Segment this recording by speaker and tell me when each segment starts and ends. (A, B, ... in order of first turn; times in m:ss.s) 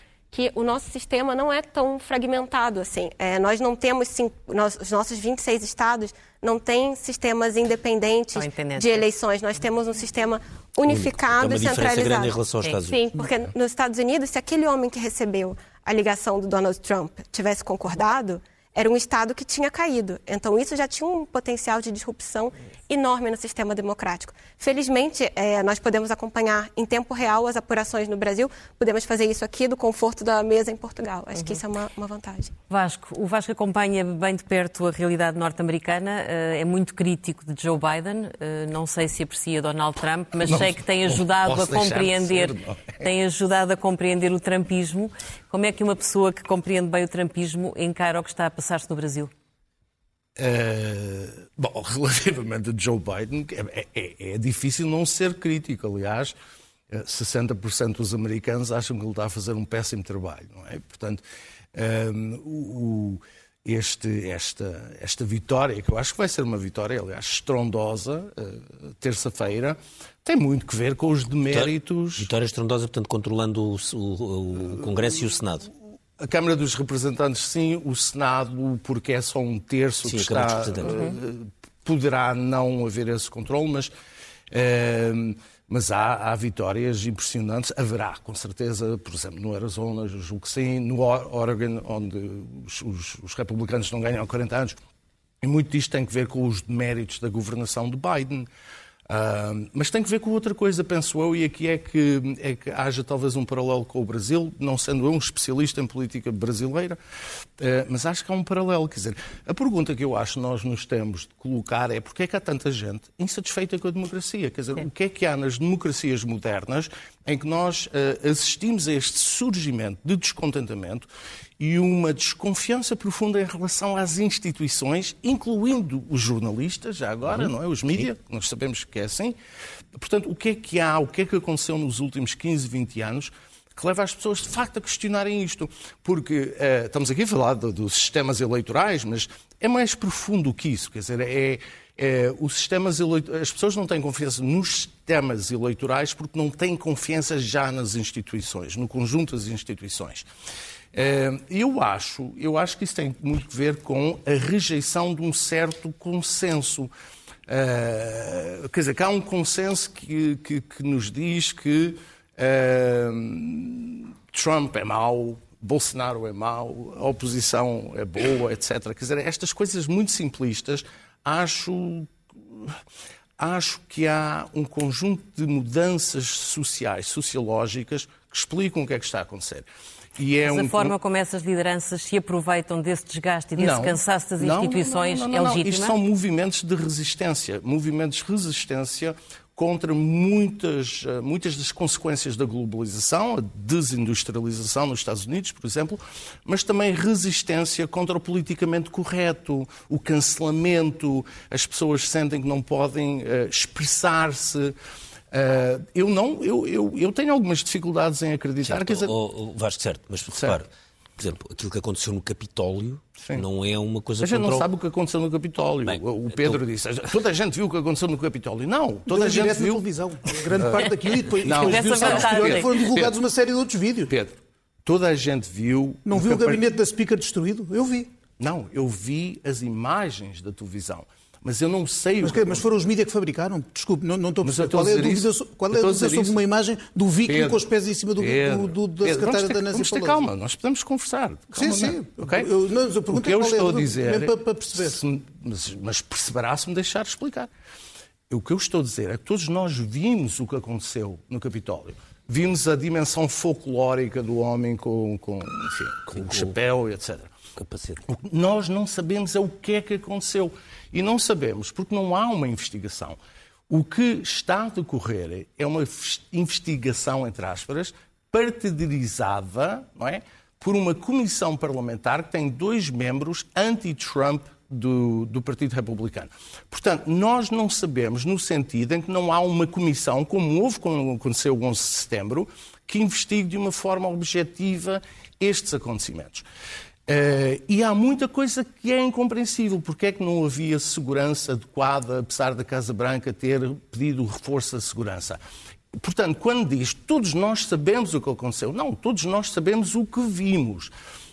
0:00.3-0:32.5 A
0:08.3-0:09.1 B
0:10.9-0:13.3 C
0:32.7-0:49.3 B
0:40.4-0:43.0 D
0:50.4-0:56.3 D
0:56.9-1:01.2 D
1:01.7-1:12.3 D
1:11.5-1:15.7 C
1:16.2-1:23.9 D
1:20.0-1:21.0 C
1:20.8-1:21.1 B
1:24.5-1:34.8 D
1:35.4-1:38.5 D
1:39.1-1:47.0 D
1:47.6-2:01.1 D
2:01.6-2:09.4 D
2:07.2-2:08.1 C
2:09.9-2:30.3 D
2:30.9-2:36.9 D
2:37.5-2:52.7 D
2:53.4-3:00.9 D
3:00.4-3:06.0 B
3:03.6-3:24.7 D
3:25.3-3:29.1 D
3:28.6-3:30.7 C
3:30.3-3:30.6 D
3:31.2-3:34.7 C
3:33.2-3:33.4 D
3:34.2-3:39.8 D
3:35.8-3:36.6 C
3:39.1-3:44.1 E
3:40.3-3:43.1 D
3:41.6-3:42.8 B
3:44.1-3:46.7 D
3:46.0-3:48.1 E
3:48.4-3:52.6 D
3:52.2-4:00.3 E
3:54.4-3:56.4 D
3:57.3-3:57.6 D
3:58.2-4:02.5 D
4:01.5-4:05.0 E
4:03.1-4:07.5 D
4:08.3-4:17.3 D
4:16.1-4:16.6 C
4:17.6-4:18.0 C
4:18.1-4:23.2 D
4:23.7-4:46.4 D
4:47.1-4:55.4 D
4:56.0-5:00.9 D